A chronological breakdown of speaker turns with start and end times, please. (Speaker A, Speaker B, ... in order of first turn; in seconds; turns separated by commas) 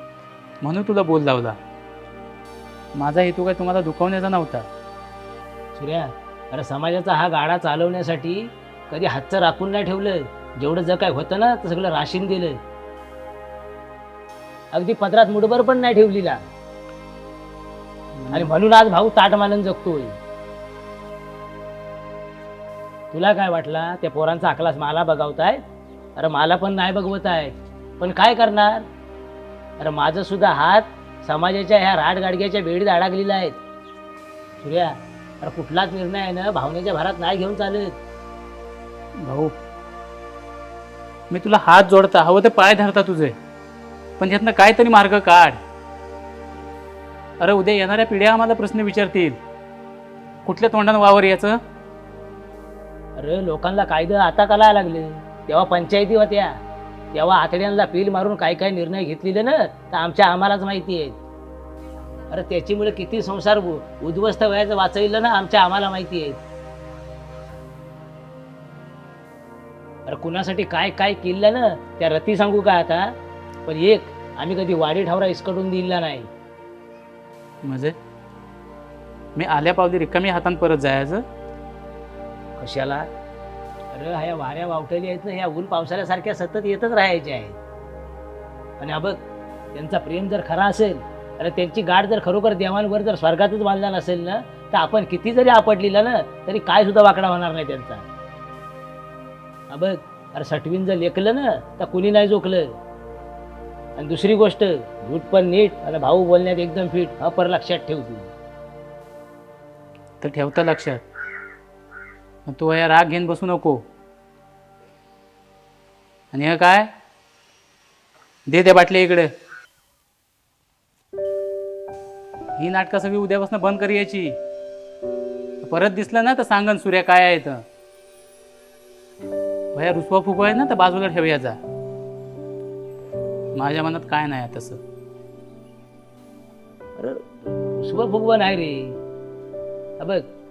Speaker A: 0.6-1.6, Speaker A: 2.9-4.7, Speaker B: 5.7-12.6, Speaker B: 14.7-16.4, Speaker A: 18.1-18.5, Speaker B: 18.3-20.1, Speaker B: 23.1-25.6, Speaker B: 26.2-28.9, Speaker B: 29.8-33.6, Speaker B: 34.6-37.9, Speaker A: 39.2-39.5, Speaker A: 41.3-43.3, Speaker A: 44.2-45.6, Speaker A: 47.4-49.4, Speaker A: 50.4-51.6, Speaker B: 53.2-56.5, Speaker B: 57.1-61.2, Speaker B: 62.3-66.4, Speaker B: 70.1-73.1, Speaker B: 73.7-76.3, Speaker A: 77.6-78.0, Speaker A: 79.3-81.2, Speaker B: 82.6-83.1, Speaker B: 83.9-87.6, Speaker B: 88.8-89.2, Speaker B: 89.7-98.0, Speaker B: 99.7-102.7, Speaker B: 104.0-108.3, Speaker A: 110.2-111.0, Speaker A: 112.5-113.8, Speaker A: 116.3-116.9, Speaker A: 118.5-119.3, Speaker A: 122.6-124.3, Speaker A: 125.6-127.6, Speaker A: 129.7-131.6, Speaker A: 133.5-134.8, Speaker B: 137.0-139.0, Speaker B: 140.0-140.2